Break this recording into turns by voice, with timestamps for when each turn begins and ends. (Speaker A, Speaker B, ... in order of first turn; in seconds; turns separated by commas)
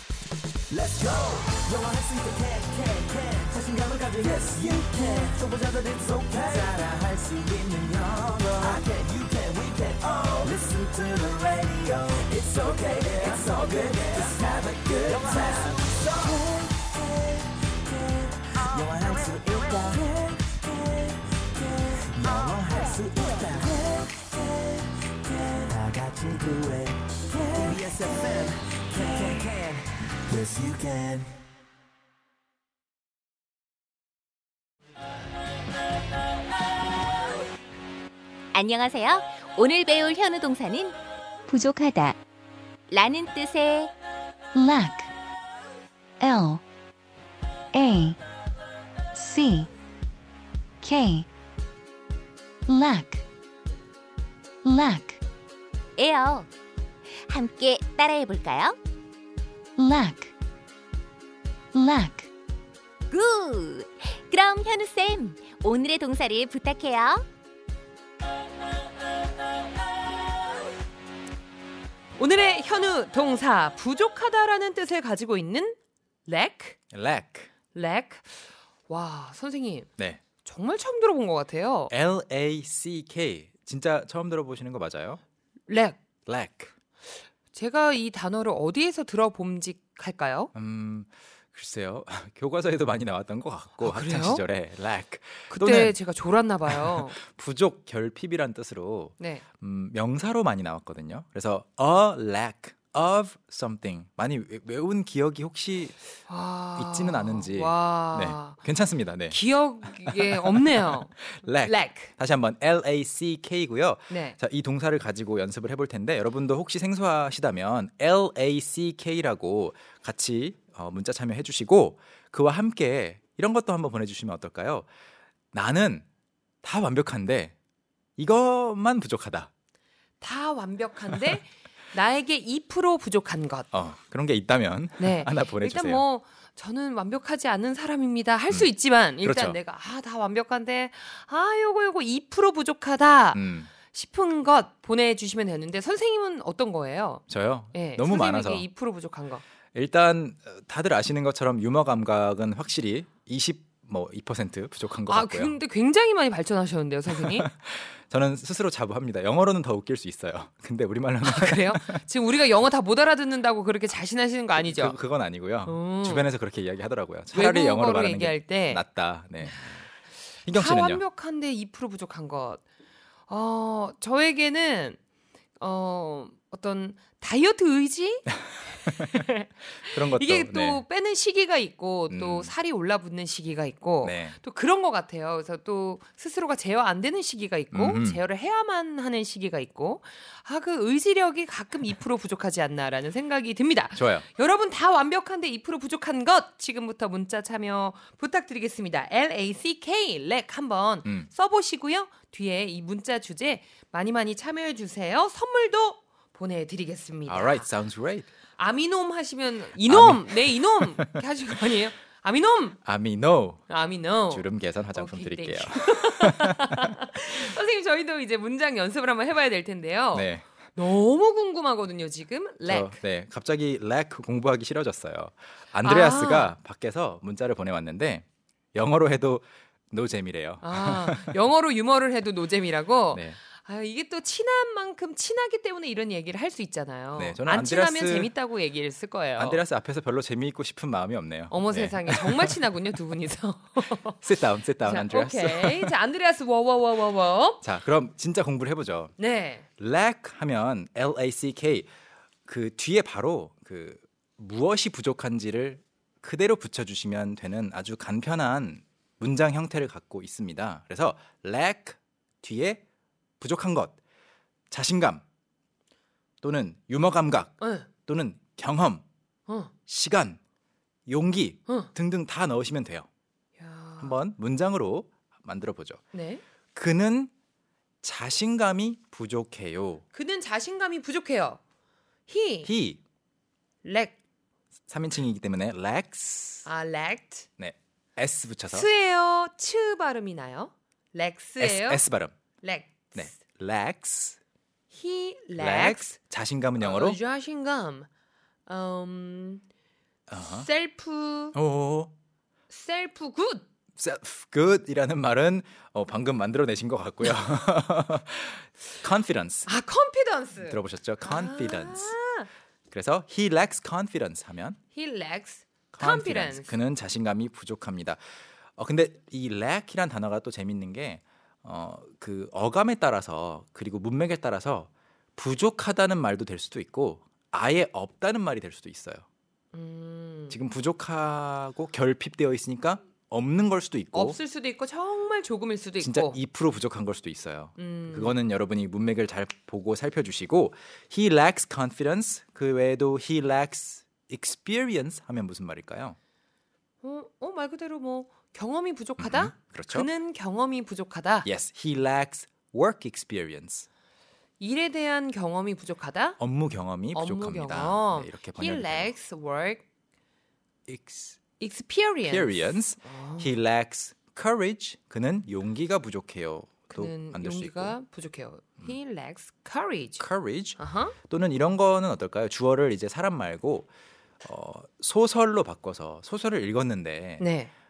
Speaker A: 0.7-24.5, Speaker A: 25.3-31.3, Speaker B: 38.5-40.9, Speaker B: 41.5-42.1, Speaker C: 41.6-42.1, Speaker B: 42.9-43.9, Speaker C: 44.5-45.1, Speaker C: 46.2-46.6, Speaker C: 47.7-48.2, Speaker C: 49.1-49.7, Speaker C: 50.8-51.3, Speaker C: 52.7-53.2, Speaker C: 54.6-55.2, Speaker B: 56.0-56.5, Speaker B: 57.2-58.8, Speaker C: 59.8-60.3, Speaker C: 61.7-62.3, Speaker B: 63.1-67.2, Speaker D: 72.2-76.8, Speaker E: 76.9-77.5, Speaker D: 77.7-79.9, Speaker D: 80.4-81.9, Speaker E: 81.9-85.2, Speaker D: 85.7-86.0, Speaker E: 86.2-86.7, Speaker D: 87.5-90.5, Speaker E: 90.5-96.0, Speaker D: 93.8-94.4, Speaker D: 95.5-97.2, Speaker E: 96.7-106.2, Speaker D: 99.2-99.4, Speaker D: 106.3-108.6, Speaker E: 106.8-124.9, Speaker D: 109.3-112.1, Speaker D: 114.1-114.4, Speaker E: 125.5-126.0, Speaker E: 126.6-127.5, Speaker E: 128.2-129.5, Speaker D: 130.2-133.7, Speaker E: 133.7-136.0, Speaker D: 135.0-147.2, Speaker E: 138.5-139.6, Speaker E: 143.3-143.7, Speaker E: 147.3-148.7, Speaker D: 147.7-149.4, Speaker E: 149.7-155.6, Speaker D: 155.1-157.5, Speaker E: 157.1-162.0, Speaker D: 161.2-165.0, Speaker E: 164.6-169.8, Speaker D: 165.6-166.3, Speaker D: 167.3-168.8, Speaker D: 169.4-169.8, Speaker E: 170.4-171.0, Speaker D: 170.5-172.6, Speaker D: 173.3-175.0, Speaker D: 175.6-207.7, Speaker E: 178.9-179.2, Speaker E: 179.8-180.8, Speaker E: 182.1-182.5, Speaker E: 184.0-184.4, Speaker E: 187.7-188.2, Speaker E: 193.9-194.2, Speaker E: 207.2-208.3, Speaker D: 208.6-212.8, Speaker E: 209.8-211.1, Speaker E: 212.8-213.7, Speaker D: 213.7-223.0, Speaker E: 214.3-216.9, Speaker E: 220.1-220.4, Speaker E: 222.6-231.4, Speaker D: 225.8-226.6, Speaker D: 230.6-239.6, Speaker E: 233.1-233.4, Speaker E: 237.2-238.3, Speaker E: 239.4-242.8, Speaker D: 241.5-244.2, Speaker E: 244.2-245.9, Speaker D: 244.8-247.6, Speaker E: 247.6-249.1, Speaker D: 249.2-249.6, Speaker E: 249.8-251.9, Speaker E: 252.4-262.8, Speaker E: 263.4-264.0, Speaker E: 264.7-265.2, Speaker E: 266.4-269.0, Speaker D: 267.6-267.9, Speaker D: 269.5-269.7, Speaker E: 269.9-270.4, Speaker E: 271.1-273.1, Speaker D: 273.6-274.1, Speaker E: 274.0-276.0, Speaker D: 276.1-276.4, Speaker E: 276.7-277.3, Speaker E: 278.0-280.0, Speaker D: 280.1-281.6, Speaker D: 282.3-282.7, Speaker E: 282.6-283.0, Speaker D: 283.8-284.1, Speaker E: 284.9-286.7, Speaker D: 286.6-287.5, Speaker E: 287.6-288.9, Speaker D: 288.7-292.0, Speaker E: 291.6-292.3, Speaker D: 292.6-293.3, Speaker E: 293.1-294.4, Speaker D: 294.9-296.1, Speaker E: 295.6-297.2, Speaker D: 296.8-298.1, Speaker D: 298.6-299.6, Speaker E: 300.3-300.7, Speaker D: 300.3-301.6, Speaker E: 301.5-302.1, Speaker D: 302.7-303.6, Speaker E: 304.0-309.7, Speaker D: 309.7-312.5, Speaker E: 310.6-312.1, Speaker E: 312.9-314.8, Speaker D: 314.9-316.7, Speaker E: 315.9-318.2, Speaker E: 318.8-329.2, Speaker D: 329.7-330.6, Speaker E: 330.5-334.4, Speaker D: 334.1-336.4, Speaker E: 336.0-346.2, Speaker D: 337.8-338.4, Speaker D: 347.0-351.5, Speaker E: 349.2-350.1, Speaker E: 351.4-353.9, Speaker D: 354.6-356.4, Speaker E: 356.4-359.1, Speaker D: 357.1-359.8, Speaker E: 360.9-361.4, Speaker D: 361.6-363.5, Speaker E: 362.2-368.0, Speaker D: 366.9-370.2, Speaker E: 370.2-373.9, Speaker D: 370.8-371.1, Speaker E: 374.4-377.4, Speaker D: 377.4-377.7